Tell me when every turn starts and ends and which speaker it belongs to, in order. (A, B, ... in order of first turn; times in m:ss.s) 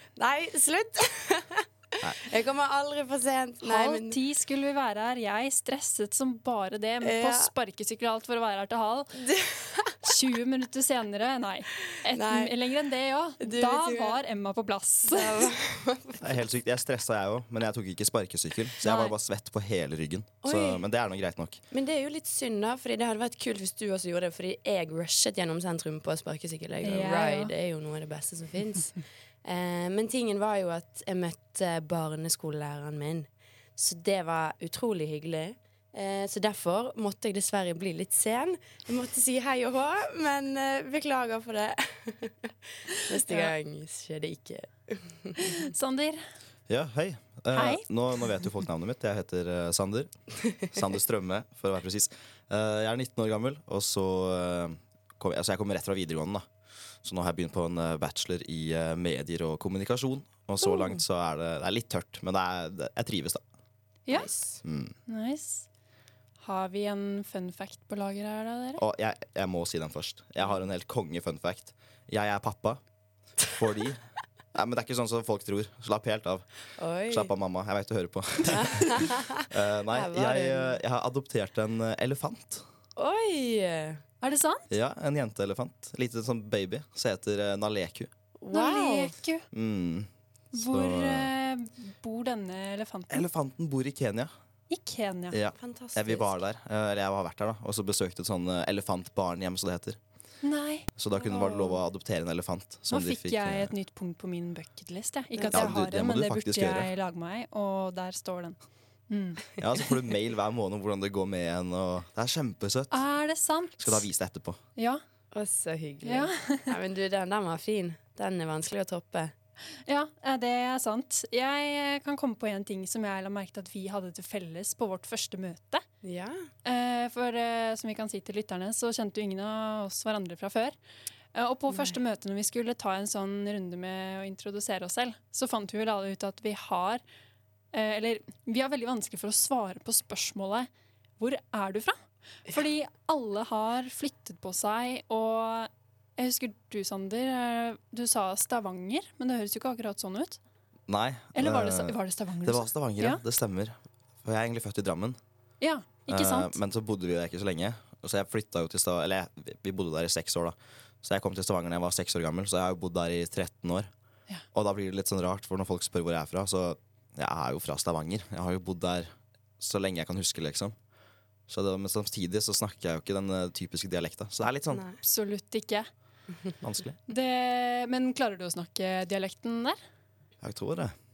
0:00.2-0:04.2 A
0:03.6-0:09.3 B
0:07.0-0:07.5 A
0:09.2-0:10.1 A
0:10.0-0:15.5 B
0:12.1-0:12.5 A
0:13.4-0:14.2 A
0:15.0-0:16.3 A
0:16.2-0:21.6 C
0:18.8-0:19.1 B
0:20.4-0:20.8 A
0:21.7-0:45.7 A
0:26.8-0:27.5 B
0:43.2-0:43.5 B
0:45.4-0:46.2 B
0:46.7-0:50.1 C
0:47.5-0:47.9 B
0:50.7-0:56.5 C
0:57.0-1:03.4 C
1:00.6-1:01.0 A
1:04.1-1:04.6 A
1:04.6-1:05.0 C
1:05.1-1:05.7 B
1:06.4-1:08.8 B
1:08.8-1:12.8 C
1:13.5-1:16.5 C
1:16.8-1:17.3 A
1:17.1-1:22.6 C
1:18.5-1:20.8 A
1:23.0-1:24.0 A
1:24.2-1:24.7 B
1:24.7-1:28.1 C
1:28.4-1:29.1 A
1:28.5-1:29.5 B
1:29.5-1:31.3 C
1:30.5-1:33.3 B
1:33.1-1:34.3 C
1:34.7-1:35.4 B
1:35.3-1:40.0 C
1:35.6-1:36.4 A
1:40.4-1:40.9 B
1:41.0-1:43.7 C
1:41.2-1:41.8 A
1:42.9-1:48.6 B
1:45.4-1:45.8 A
1:45.5-1:46.9 C
1:49.1-1:49.4 B
1:49.6-1:53.0 C
1:52.9-1:54.0 B
1:53.8-1:54.6 C
1:54.8-1:55.0 B
1:55.3-1:59.3 A
1:56.0-1:56.8 B
1:59.9-2:05.8 B
2:06.0-2:06.5 A
2:06.6-2:10.8 B
2:11.3-2:17.0 B
2:17.7-2:30.4 B
2:30.9-2:35.2 C
2:31.3-2:33.2 B
2:35.6-2:36.6 B
2:36.1-2:43.9 C
2:44.5-2:50.8 C
2:51.5-2:54.8 C
2:54.7-2:55.0 A
2:55.0-2:55.9 B
2:56.6-2:57.0 C
2:57.1-2:59.8 B
3:00.4-3:01.0 C